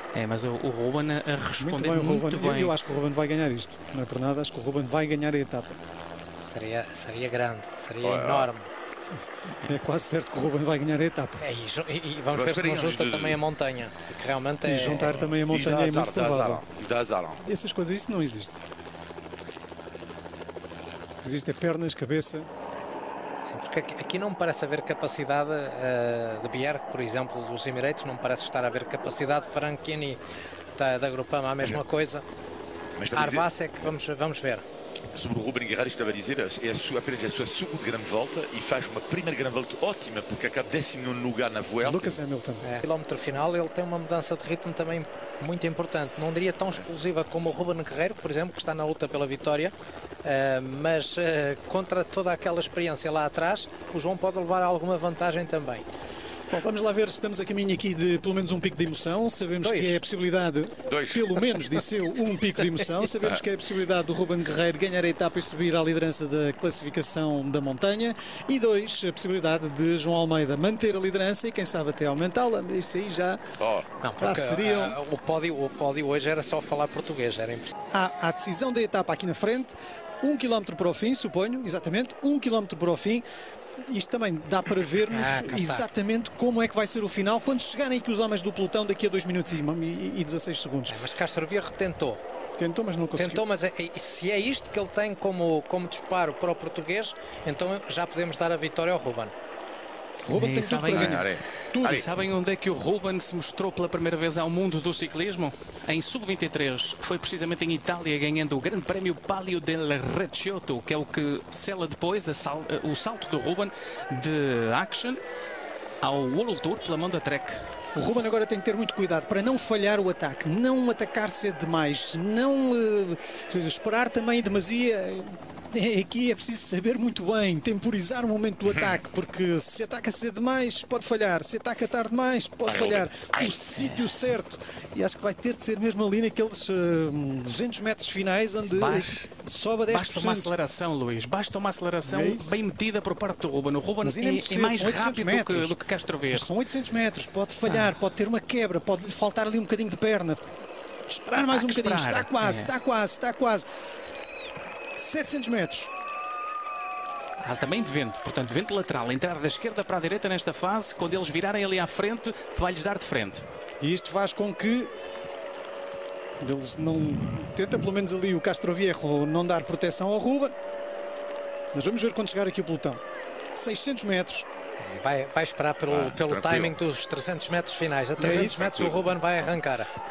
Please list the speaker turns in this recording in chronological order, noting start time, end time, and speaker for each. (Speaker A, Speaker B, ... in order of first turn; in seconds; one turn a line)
Speaker A: 0.1-2.8
Speaker B: 1.6-5.8
Speaker C: 6.4-8.7
Speaker D: 8.0-8.5
Speaker B: 9.6-11.4
Speaker C: 11.4-15.1
Speaker D: 12.3-13.4
Speaker B: 14.6-16.6
Speaker D: 14.9-17.4
Speaker B: 17.4-18.6
Speaker B: 21.2-22.5
Speaker C: 23.4-30.2
Speaker C: 30.8-32.2
Speaker D: 33.0-33.5
Speaker C: 33.1-34.6
Speaker D: 35.1-42.2
Speaker B: 41.8-42.7
Speaker C: 42.6-55.8
Speaker B: 56.5-73.4
Speaker C: 59.6-60.0
Speaker D: 60.9-61.2
Speaker D: 73.6-73.9
Speaker C: 74.0-77.7
Speaker B: 74.2-75.0
Speaker B: 77.9-83.2
Speaker B: 83.9-91.0
Speaker C: 85.1-85.9
Speaker C: 90.9-92.2
Speaker B: 92.6-93.4
Speaker C: 93.1-99.3
Speaker B: 100.2-102.0
Speaker A: 100.3-115.2
Speaker D: 100.9-102.0
Speaker A: 116.0-117.6
Speaker B: 117.9-140.5
Speaker D: 132.7-133.5
Speaker A: 138.7-139.3
Speaker A: 139.9-146.5
Speaker B: 142.0-142.6
Speaker B: 144.0-145.8
Speaker B: 146.3-150.4
Speaker A: 147.7-147.9
Speaker B: 151.1-153.7
Speaker A: 151.5-152.7
Speaker B: 155.0-155.9
Speaker A: 157.4-163.4
Speaker B: 163.8-164.9
Speaker B: 166.4-170.5
Speaker B: 171.7-173.0
Speaker B: 173.5-174.4
Speaker C: 174.8-179.9
Speaker D: 175.9-176.7
Speaker B: 178.2-178.7
Speaker D: 178.2-179.1